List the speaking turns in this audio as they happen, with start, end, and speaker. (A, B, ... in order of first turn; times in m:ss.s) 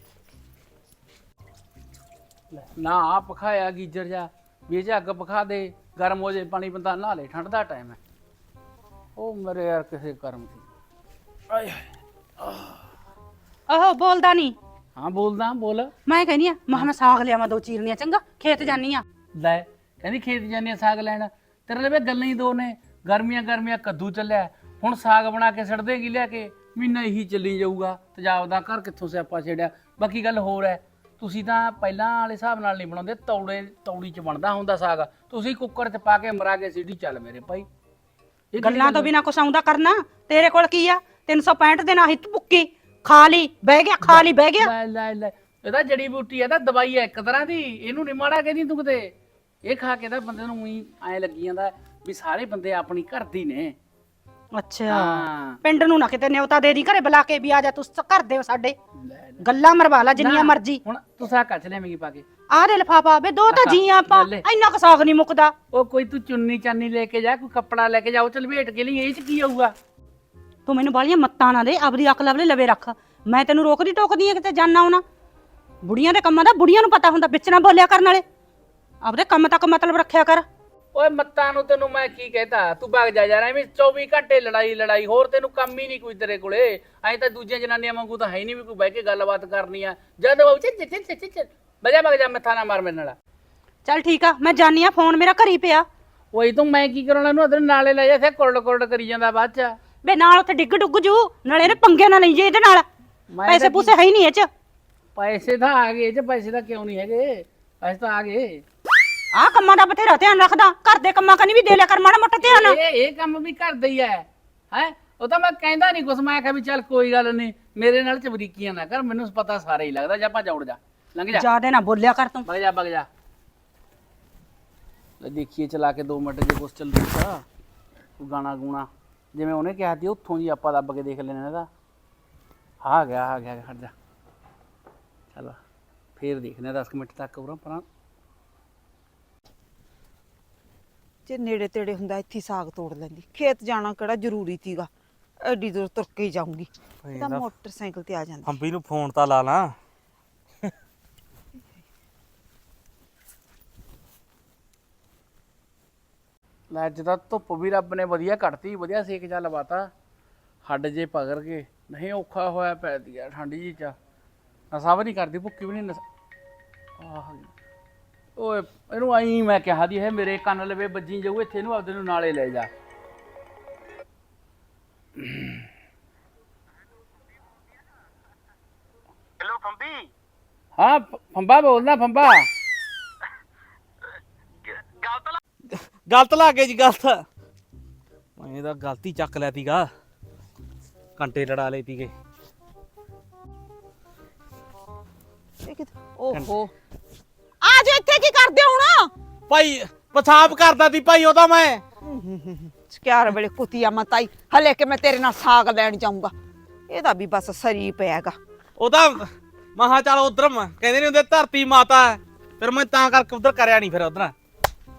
0:02.5-0:08.0 A
0:09.2-0:10.6 A
0:11.5-0:11.8 A
0:12.4-0:12.8 A
0:13.7-0:14.5 B
0:15.0-0:15.9 A
0:16.1-0:19.0 B
0:19.4-0:37.6 A
0:38.5-0:39.1 A
0:38.6-0:44.7 B
0:44.0-0:49.1 A
0:49.6-0:53.7 A
0:54.5-0:58.7 B
0:54.9-0:55.6 A
0:59.0-0:59.4 A
0:59.4-1:00.8 B
1:00.2-1:02.2 A
1:02.5-1:05.5 B
1:03.5-1:04.4 A
1:05.7-1:09.7 A
1:10.7-1:15.0 B
1:15.8-1:18.2 B
1:19.0-1:20.4 B
1:20.9-1:33.2 A
1:33.8-1:35.8 B
1:36.3-1:39.8 A
1:40.0-1:42.8 B
1:43.3-1:43.9 A
1:43.5-1:44.5 B
1:45.2-1:48.6 A
1:49.3-1:52.8 B
1:52.4-2:01.4 A
2:01.3-2:02.4 B
2:02.4-2:03.1 A
2:05.2-2:07.4 A
2:08.2-2:11.7 A
2:12.8-2:13.9 A
2:15.3-2:15.6 A
2:16.2-2:17.8 A
2:21.3-2:24.9 C
2:25.4-2:28.5 C
2:27.0-2:27.4 D
2:28.4-2:29.7 D
2:36.7-2:39.9 A
2:40.6-2:44.0 A
2:44.7-2:46.0 A
2:47.0-2:47.5 A
2:48.4-2:52.7 A
2:55.2-2:55.7 A
2:59.4-3:00.0 D
3:00.8-3:02.5 A
3:05.7-3:07.2 D
3:08.4-3:09.9 D
3:11.2-3:12.1 D
3:15.6-3:16.7 C
3:17.6-3:19.1 C
3:19.5-3:21.8 D
3:22.0-3:26.3 C
3:26.9-3:28.4 C
3:28.8-3:34.3 D